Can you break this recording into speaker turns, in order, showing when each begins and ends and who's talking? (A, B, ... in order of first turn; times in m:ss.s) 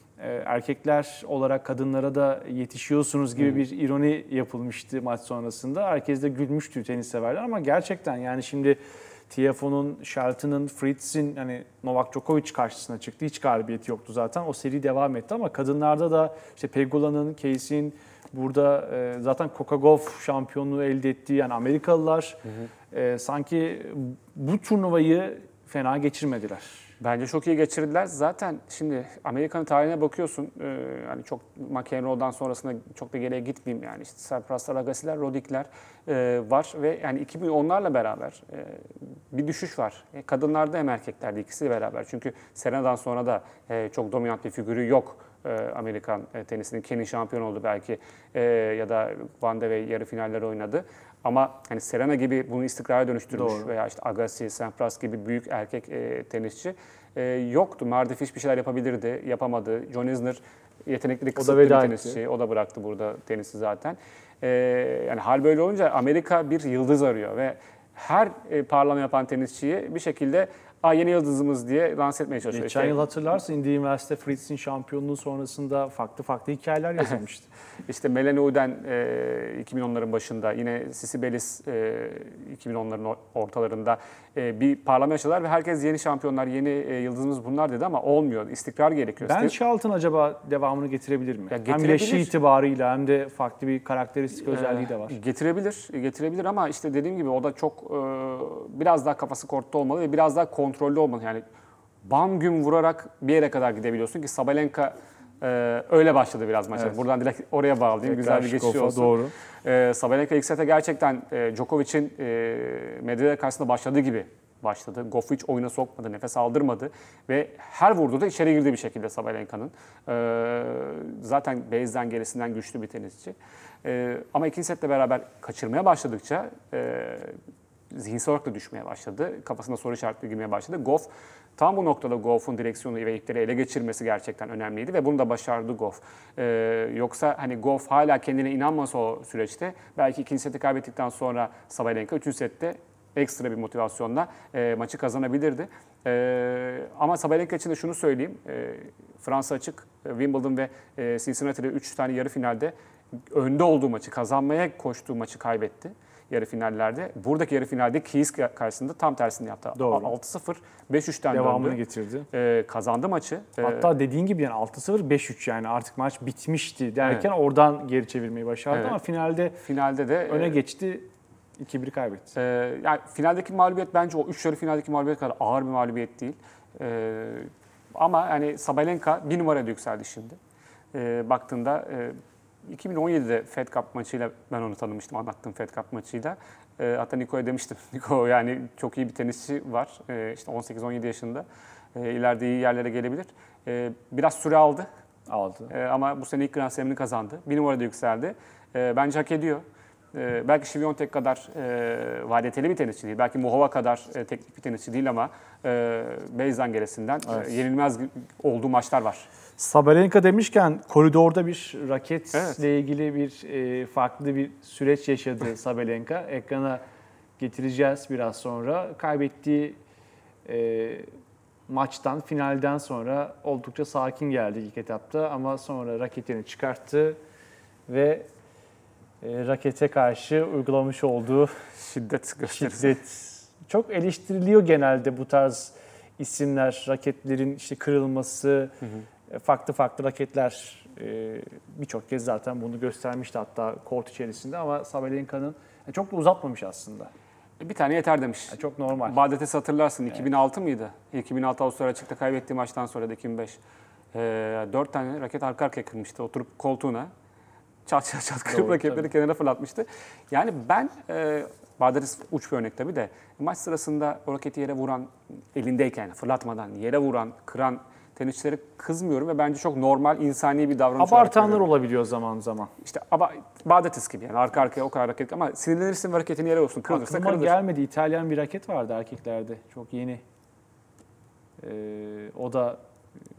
0:00.2-0:22.4 A
0:22.9-0:26.9 A
0:27.0-1:13.0 B
0:53.3-0:53.7 A
1:01.4-1:02.2 A
1:12.5-1:17.5 A
1:17.9-1:29.6 B
1:29.2-1:35.2 A
1:31.5-1:32.4 B
1:34.4-1:41.4 B
1:42.0-2:07.4 B
1:48.0-1:49.3 A
2:07.9-2:32.8 B
2:33.3-2:41.8 B
2:39.8-2:40.2 A
2:41.3-2:42.3 A
2:42.3-2:43.9 B
2:43.6-2:49.6 A
2:48.7-2:49.0 B
2:49.6-2:50.6 B
2:50.3-2:52.3 A
2:52.4-3:00.4 B
3:00.9-3:14.9 B
3:15.3-3:15.7 A
3:15.7-3:19.6 B
3:20.1-3:29.3 B
3:29.6-3:36.8 A
3:32.3-3:32.6 B
3:37.4-3:39.8 A
3:40.4-3:41.1 A
3:41.7-3:47.2 A
3:47.9-3:48.3 A
3:49.2-3:51.6 A
3:51.8-3:53.0 B
3:52.5-3:58.7 A
3:59.3-4:07.1 A
4:07.6-4:13.6 B
4:08.5-4:09.2 A
4:14.1-4:17.1 B
4:17.9-4:31.7 B
4:18.5-4:19.1 A
4:31.0-4:32.7 A
4:32.8-4:37.6 B
4:36.9-4:40.2 A
4:41.6-4:42.8 A